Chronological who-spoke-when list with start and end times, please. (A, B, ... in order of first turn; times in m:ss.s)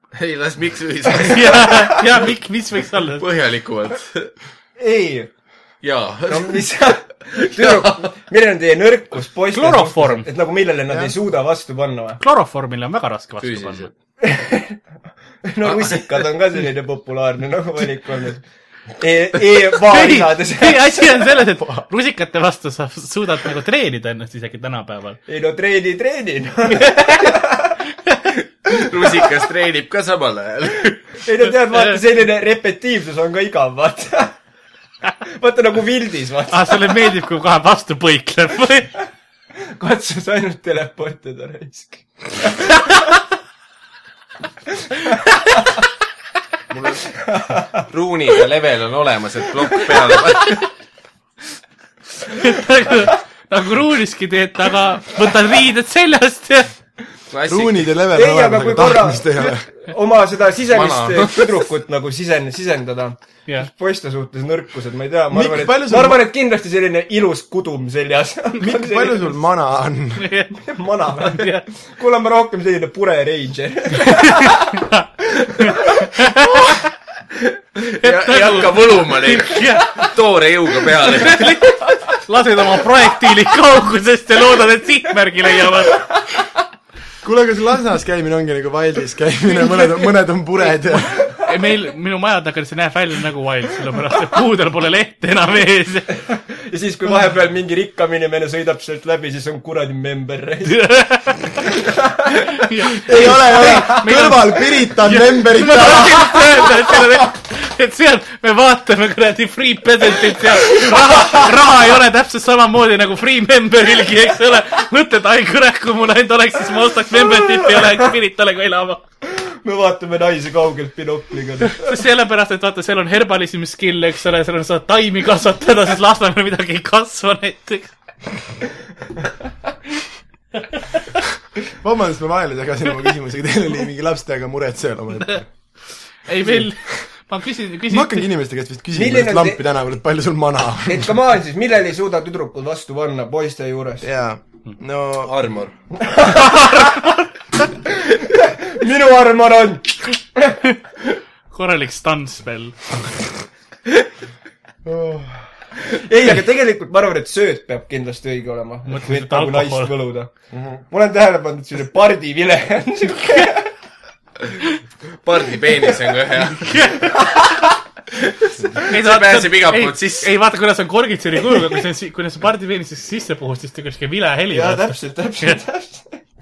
0:00.1-0:02.0 A
0:01.1-0:03.2 B
0:03.2-0:04.3 A
0:04.8-0:05.3 C
0:05.8-0:06.7 A
0:06.3-0:12.2 C
0:07.3-0:08.1 A
0:09.5-0:10.3 B
0:12.2-0:13.9 B
0:13.4-0:13.9 A
0:14.2-0:14.8 C
0:15.4-0:18.4 C
0:15.7-0:16.0 A
0:19.0-0:21.3 C
0:19.8-0:25.2 B
0:25.3-0:27.8 C
0:26.7-0:27.4 B
0:28.7-0:31.2 A
0:31.2-0:34.3 C
0:35.3-0:36.9 C
0:36.5-0:39.0 B
0:39.8-0:43.0 C
0:46.7-0:47.0 A
0:47.2-0:47.8 C
0:47.9-0:50.7 A
0:52.3-0:56.7 B
0:57.3-0:57.9 A
0:57.5-0:59.7 D
0:58.1-1:09.4 C
1:00.7-1:01.5 A
1:05.3-1:06.2 D
1:08.6-1:10.3 D
1:10.2-1:10.6 B
1:10.6-1:14.7 C
1:11.2-1:11.7 B
1:14.0-1:16.8 B
1:15.3-1:16.1 C
1:17.8-1:21.6 A
1:18.0-1:20.1 B
1:21.0-1:26.0 B
1:27.2-1:31.3 D
1:31.4-1:36.2 B
1:36.3-1:40.8 C
1:40.7-1:41.6 B
1:41.7-1:42.5 C
1:42.5-1:59.0 B
1:43.0-1:46.7 D
1:43.1-1:44.1 C
1:57.5-1:58.0 C
1:59.4-2:01.9 C
2:01.6-2:07.9 B
2:11.7-2:15.5 D
2:16.2-2:18.3 B
2:16.4-2:16.7 D
2:17.9-2:21.2 D
2:18.9-2:19.6 C
2:20.9-2:24.1 C
2:24.0-2:25.3 D
2:25.2-2:25.7 A
2:26.0-2:26.9 C
2:26.4-2:27.1 B
2:27.9-2:30.6 C
2:31.5-2:33.1 B
2:34.8-2:35.5 D
2:35.8-2:40.3 C
2:38.9-2:39.9 B
2:40.5-2:40.8 D
2:40.9-2:43.7 C
2:45.2-2:47.0 A
2:46.6-2:47.2 B
2:47.1-2:47.6 C
2:48.8-2:50.3 A
2:48.9-2:55.6 B
2:54.5-2:56.2 C